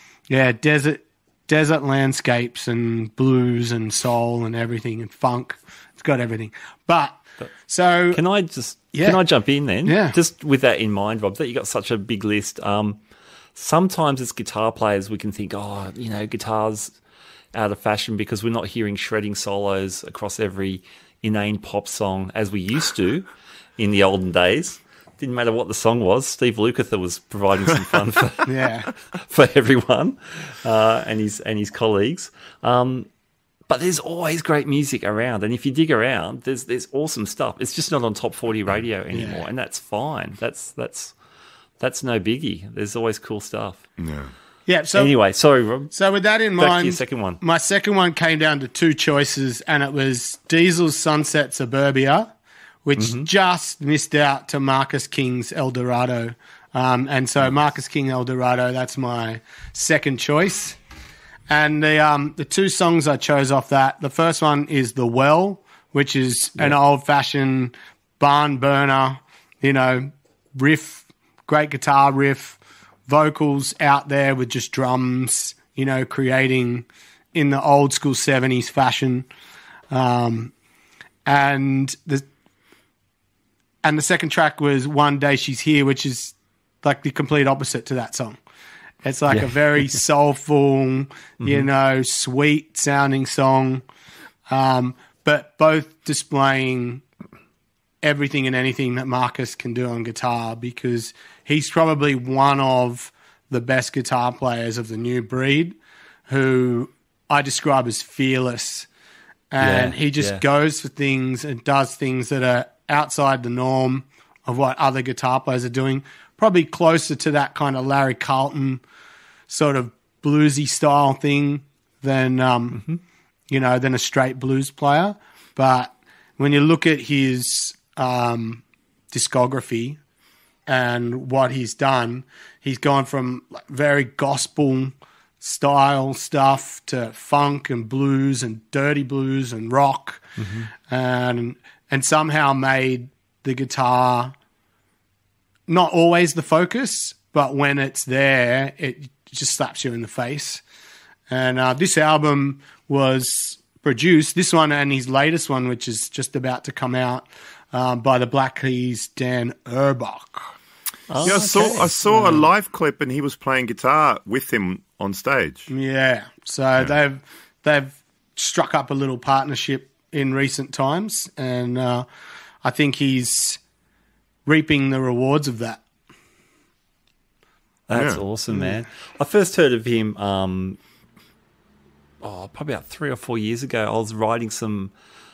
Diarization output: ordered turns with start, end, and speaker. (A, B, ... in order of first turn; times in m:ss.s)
0:00.3-0:08.2 A
0:08.1-0:13.0 B
0:08.9-0:09.2 A
0:09.8-0:10.2 A
0:13.6-0:17.0 B
0:17.5-0:28.5 B
0:28.4-0:28.9 A
0:29.1-0:33.1 B
0:33.7-0:41.1 B
0:39.1-0:39.4 A
0:41.8-0:43.8 B
0:44.0-0:44.3 C
0:44.7-0:45.1 A
0:45.0-0:45.9 B
0:45.9-0:52.3 A
0:46.6-0:47.4 B
0:52.8-1:00.8 A
0:53.0-0:53.3 B
1:01.5-1:19.3 A
1:19.9-1:20.5 A
1:21.3-1:22.2 A
1:23.8-1:28.4 A
1:29.0-1:33.8 A
1:31.4-1:31.7 B
1:34.5-1:37.0 A
1:38.0-1:45.8 A
1:46.3-1:48.9 A
1:49.5-1:58.8 A
1:49.6-1:50.4 B
1:59.5-2:02.8 A
2:02.7-2:03.0 B
2:03.5-2:10.0 A
2:10.7-2:20.3 A
2:20.4-2:20.7 B
2:20.8-2:24.3 A
2:25.7-2:30.6 A
2:31.3-2:40.5 A
2:41.1-2:41.9 B
2:41.2-2:42.4 A
2:41.2-2:45.7 C
2:45.7-2:52.1 A
2:52.6-2:53.6 A
2:54.5-2:55.8 A
2:57.9-3:00.8 B
2:57.9-2:58.2 C
3:02.2-3:04.9 B